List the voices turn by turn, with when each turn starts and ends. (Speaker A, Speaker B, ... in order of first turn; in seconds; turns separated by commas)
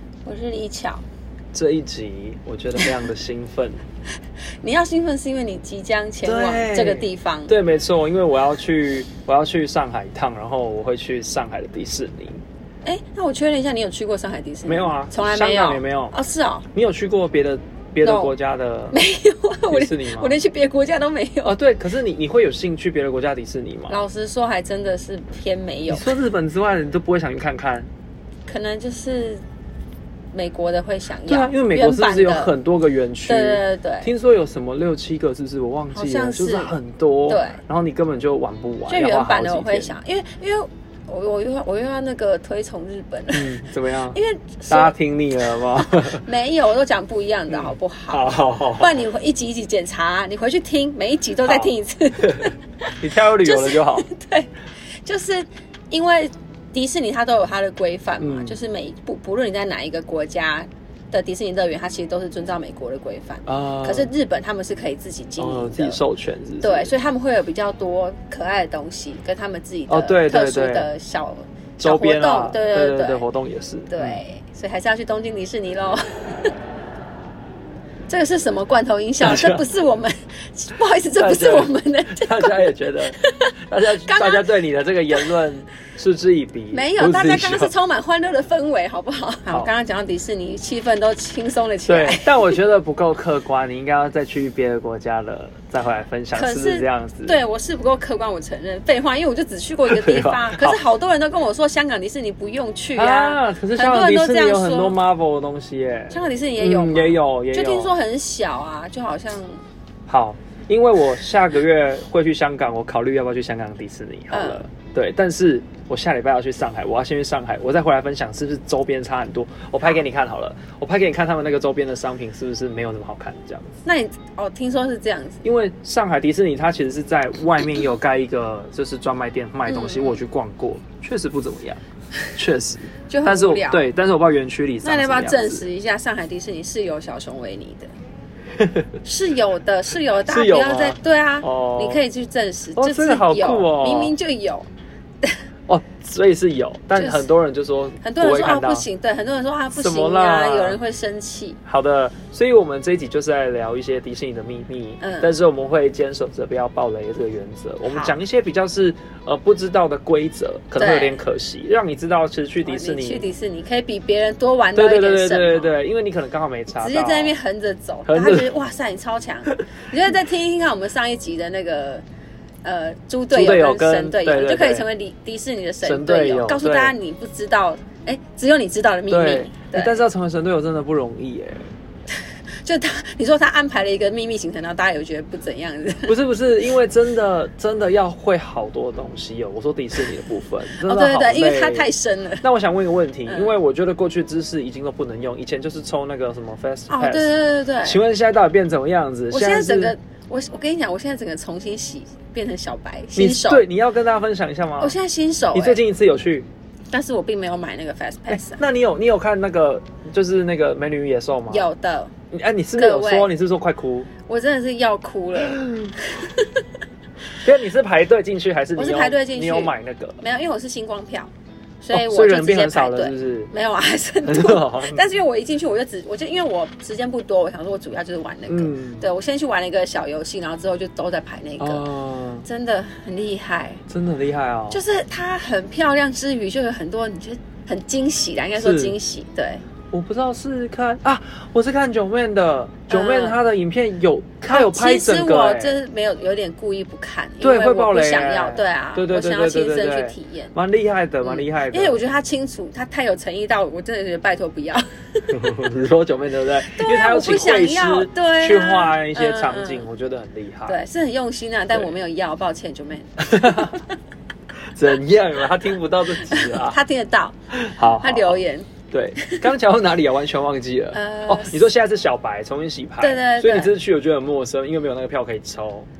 Speaker A: 0.2-1.0, Speaker B: 1.5-3.8, Speaker A: 4.6-7.5, Speaker B: 6.2-12.4, Speaker A: 12.8-16.7, Speaker B: 14.6-16.1, Speaker B: 16.7-19.0, Speaker A: 18.0-18.3, Speaker A: 18.9-21.6, Speaker B: 19.7-20.4, Speaker B: 21.4-24.0, Speaker A: 23.9-26.1, Speaker B: 25.9-27.9, Speaker A: 28.4-29.4, Speaker A: 30.3-32.5, Speaker B: 31.3-39.9, Speaker A: 33.3-34.1, Speaker A: 35.9-36.7, Speaker A: 37.3-37.6, Speaker A: 38.9-43.6, Speaker B: 43.3-46.2, Speaker A: 44.1-44.9, Speaker A: 45.5-52.5, Speaker B: 47.5-49.0, Speaker B: 51.4-54.1, Speaker A: 53.4-54.5, Speaker A: 55.0-66.0, Speaker B: 58.2-58.6, Speaker B: 63.5-64.1, Speaker B: 65.4-66.9, Speaker A: 66.6-73.2, Speaker B: 69.9-70.9, Speaker B: 71.8-74.2, Speaker A: 73.9-76.5, Speaker A: 78.1-84.5, Speaker B: 79.2-79.6, Speaker B: 81.2-87.7, Speaker A: 86.7-92.5, Speaker B: 91.8-97.4, Speaker A: 96.3-104.9, Speaker B: 99.9-100.8, Speaker B: 103.0-107.9, Speaker A: 106.1-109.6, Speaker B: 110.1-123.8, Speaker A: 114.3-114.6, Speaker A: 123.8-125.4, Speaker B: 125.4-135.7, Speaker A: 129.7-130.2, Speaker A: 133.1-133.8, Speaker A: 134.8-137.9, Speaker B: 138.6-138.9, Speaker A: 139.0-144.7, Speaker B: 140.3-142.0, Speaker B: 142.8-144.1, Speaker B: 145.7-148.8, Speaker A: 146.9-147.3, Speaker A: 148.0-151.6, Speaker B: 149.7-150.8, Speaker B: 151.7-163.2, Speaker A: 155.0-155.3, Speaker A: 157.8-158.2, Speaker A: 160.8-161.2, Speaker A: 162.6-165.7, Speaker B: 164.7-167.3, Speaker A: 166.7-172.0, Speaker B: 168.1-168.5, Speaker A: 172.6-180.0, Speaker B: 173.3-174.9, Speaker B: 175.8-176.9, Speaker B: 179.1-181.7, Speaker A: 182.6-186.1, Speaker B: 186.1-199.9, Speaker A: 190.7-192.4, Speaker A: 193.3-193.5, Speaker A: 196.9-198.0, Speaker A: 199.3-203.6, Speaker B: 203.1-204.9, Speaker A: 204.8-205.8, Speaker B: 205.5-206.5, Speaker A: 206.9-208.6, Speaker B: 208.3-211.7, Speaker A: 211.5-212.1, Speaker B: 212.3-214.1, Speaker A: 212.8-213.3, Speaker A: 214.2-216.6, Speaker B: 215.5-215.9, Speaker B: 217.4-220.2, Speaker A: 218.8-231.8, Speaker B: 221.9-223.5, Speaker B: 224.2-225.0, Speaker B: 228.5-229.1, Speaker B: 231.6-232.4, Speaker A: 232.4-233.8, Speaker B: 233.9-234.8, Speaker A: 234.7-239.6, Speaker B: 238.6-238.9, Speaker B: 239.9-245.8, Speaker A: 242.9-243.4, Speaker A: 244.5-250.5, Speaker B: 247.4-252.1, Speaker A: 251.2-255.5, Speaker B: 255.3-260.8, Speaker A: 256.7-259.9, Speaker A: 260.7-263.9, Speaker B: 263.2-263.8, Speaker B: 264.7-266.8, Speaker A: 266.2-267.4, Speaker B: 267.5-275.9, Speaker A: 268.0-269.4, Speaker A: 270.9-271.7, Speaker A: 273.0-273.7